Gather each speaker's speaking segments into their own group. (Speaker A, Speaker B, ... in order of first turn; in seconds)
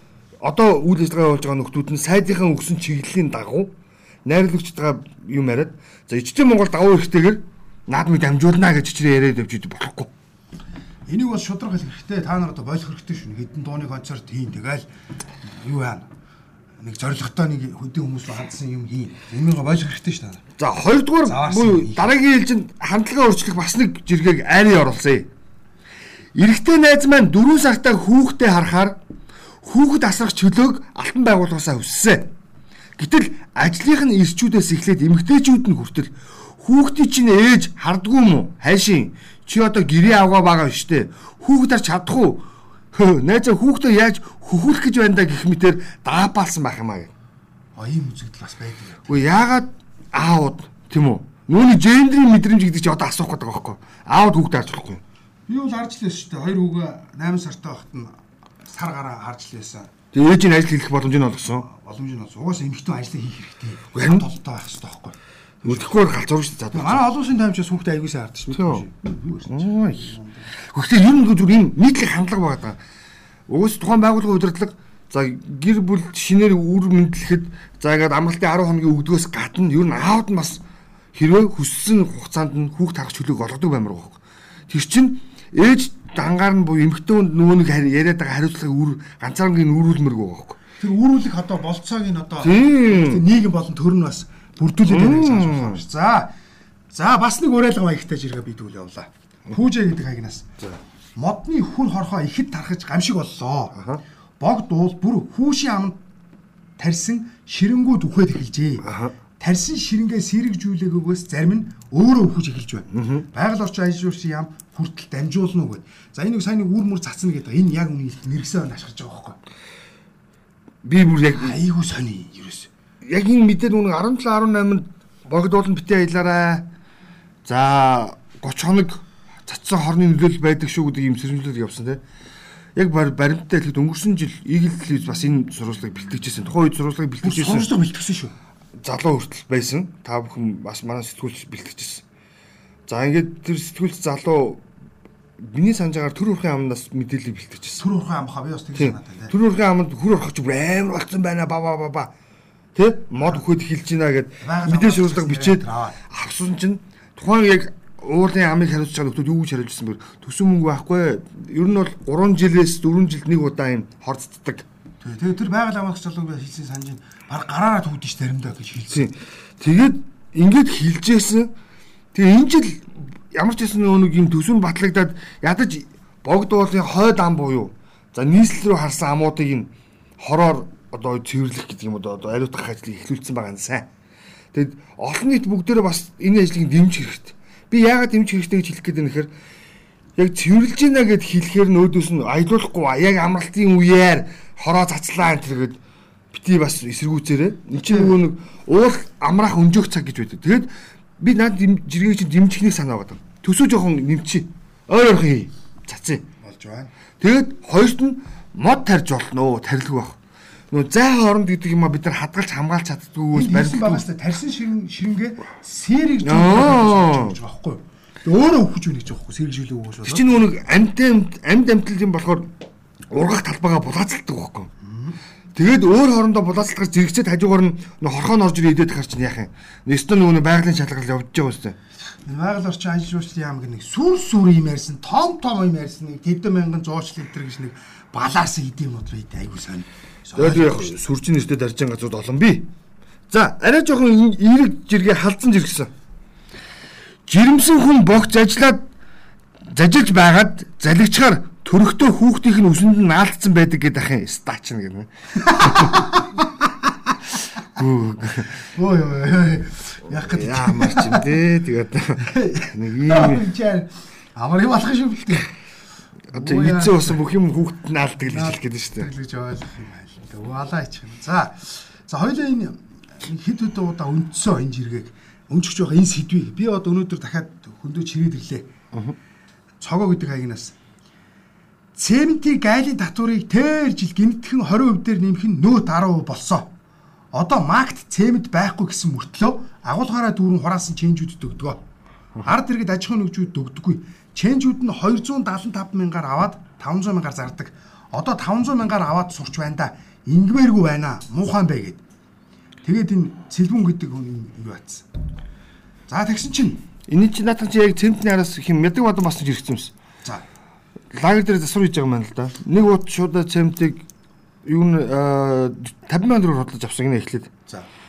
Speaker A: 0.4-3.7, 4.2-10.1, 20.6-25.3, 26.3-28.9, 29.6-32.3, 33.0-47.1, 49.1-55.0, 60.1-61.6, 63.9-64.3, 65.6-67.0, 68.5-68.8, 69.5-72.8, 73.5-80.6, 81.1-90.6, 92.4-93.2, 94.8-95.8, 103.8-104.0, 108.8-109.1, 112.9-113.3, 120.8-121.6, 123.0-126.7, 127.4-132.0, 132.8-137.7, 138.8-142.0, 142.9-144.6, 145.4-147.8, 148.8-152.1, 152.7-164.7, 168.9-171.5, 172.1-183.9, 184.5-189.3, 190.2-195.8, 196.3-206.2, 207.2-210.2, 210.7-214.0, 216.2-217.4, 220.0-222.5, 223.1-224.7, 225.5-231.8, 240.3-242.7, 243.3-245.9, 247.3-248.8, 249.7-256.1, 257.8-258.6, 260.1-263.4, 266.3-269.1, 307.1-309.9, 311.1-314.0, 314.6-317.5
Speaker B: 11.1-14.8, 15.4-16.1, 16.8-20.4, 21.2-22.1, 47.8-49.2, 55.5-59.9, 61.5-66.0, 66.7-70.5, 90.8-96.3, 96.9-100.5, 101.2-103.8, 104.4-106.0, 106.8-119.4, 121.3-122.7, 137.2-138.3, 147.8-149.3, 154.4-156.0, 165.0-169.1, 197.8-198.2, 206.4-206.9, 213.3-220.3, 224.8-225.2, 232.2-241.0, 255.4-256.5, 258.6-261.3, 262.2-265.5, 266.3-267.2, 268.2-278.7, 279.8-280.8, 281.9-286.7, 287.3-291.8, 292.4-302.0, 302.8-305.1, 306.1-306.8